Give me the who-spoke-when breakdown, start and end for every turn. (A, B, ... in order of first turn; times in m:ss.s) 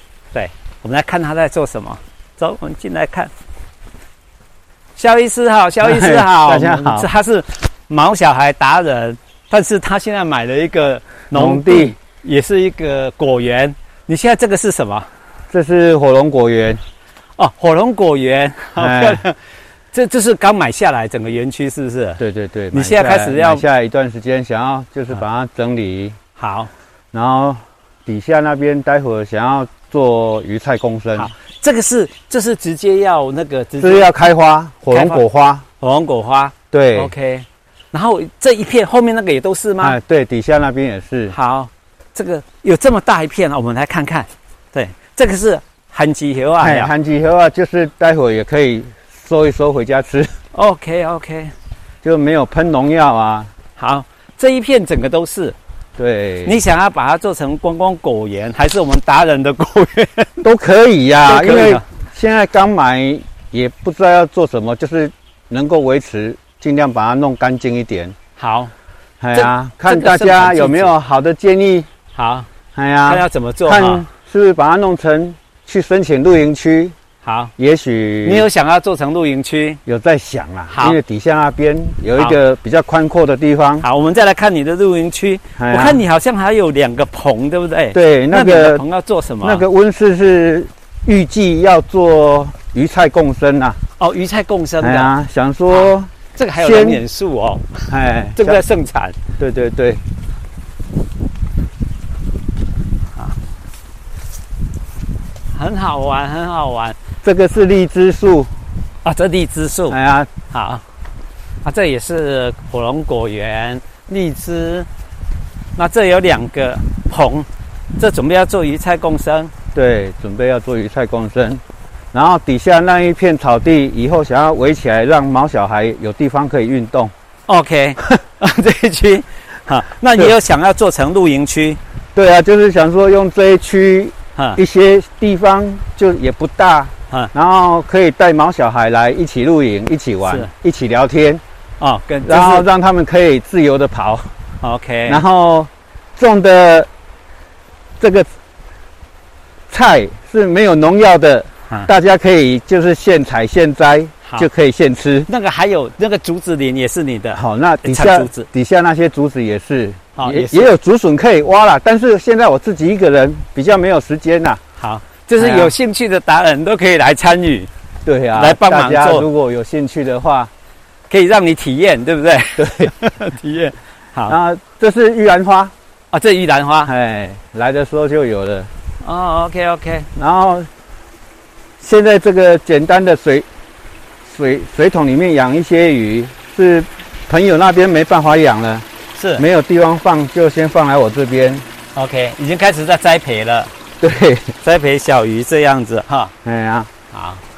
0:00.3-0:03.3 A
0:05.0-0:15.1 A
0:05.8-0:07.1 B
0:11.3-0:12.0 B
0:15.5-0:16.8 B
0:17.4-0:19.4 A
0:18.8-0:19.2 B
0:19.9-0:22.2 A
0:22.2-0:26.2 B
0:22.7-0:23.6 A
0:26.4-0:26.7 A
0:27.1-0:31.3 B
0:31.2-0:34.1 A
0:33.8-0:35.6 B
0:34.9-0:35.2 A
0:35.8-0:40.0 A
0:36.7-0:37.1 B
0:39.8-0:41.3 B
0:41.3-0:46.9 A
0:46.6-0:50.3 B
0:50.5-0:51.5 A
0:52.0-0:53.5 B
0:53.8-0:55.6 A
0:56.0-0:56.6 B
0:56.4-1:00.4 A
1:00.4-1:08.1 B
1:01.2-1:01.8 A
1:08.4-1:08.7 A
1:09.2-1:11.9 B
1:09.3-1:10.9 A
1:12.1-1:12.5 A
1:12.8-1:16.9 B
1:13.0-1:14.1 A
1:17.2-1:17.5 A
1:17.6-1:18.4 B
1:18.2-1:19.8 A
1:19.8-1:23.8 B
1:20.7-1:21.0 A
1:23.8-1:29.6 A
1:25.6-1:26.0 B
1:27.9-1:28.8 B
1:29.4-1:33.8 B
1:34.0-1:35.1 A
1:34.8-1:37.0 B
1:35.7-1:37.8 A
1:37.9-1:38.6 B
1:38.3-1:39.2 A
1:39.4-1:40.0 B
1:45.5-1:47.0 A
1:47.2-1:48.5 B
1:49.0-1:50.0 A
1:49.9-1:50.3 B
1:50.5-1:50.8 A
1:51.6-1:54.9 A
1:55.8-1:59.5 A
1:59.7-2:01.6 B
2:02.1-2:07.1 B
2:07.5-2:11.8 A
2:12.1-2:21.4 B
2:20.2-2:20.5 A
2:21.8-2:22.7 A
2:22.2-2:24.3 B
2:24.6-2:25.2 A
2:25.1-2:26.9 B
2:28.0-2:28.3 B
2:29.7-2:35.3 B
2:35.3-2:38.5 A
2:37.3-2:44.6 B
2:40.2-2:40.7 A
2:44.8-2:47.7 A
2:45.4-2:45.7 B
2:48.0-2:50.5 B
2:48.3-2:49.3 A
2:51.1-2:54.4 A
2:52.6-2:52.9 B
2:54.3-2:55.7 B
2:56.1-2:56.9 A
2:56.9-2:58.7 B
2:59.0-3:00.1 A
3:00.2-3:00.7 B
3:01.8-3:03.4 B
3:04.2-3:08.8 B
3:09.2-3:09.4 A
3:09.4-3:11.6 B
3:11.9-3:13.7 A
3:14.0-3:14.5 B
3:14.6-3:16.3 A
3:16.4-3:16.9 B
3:17.1-3:17.4 A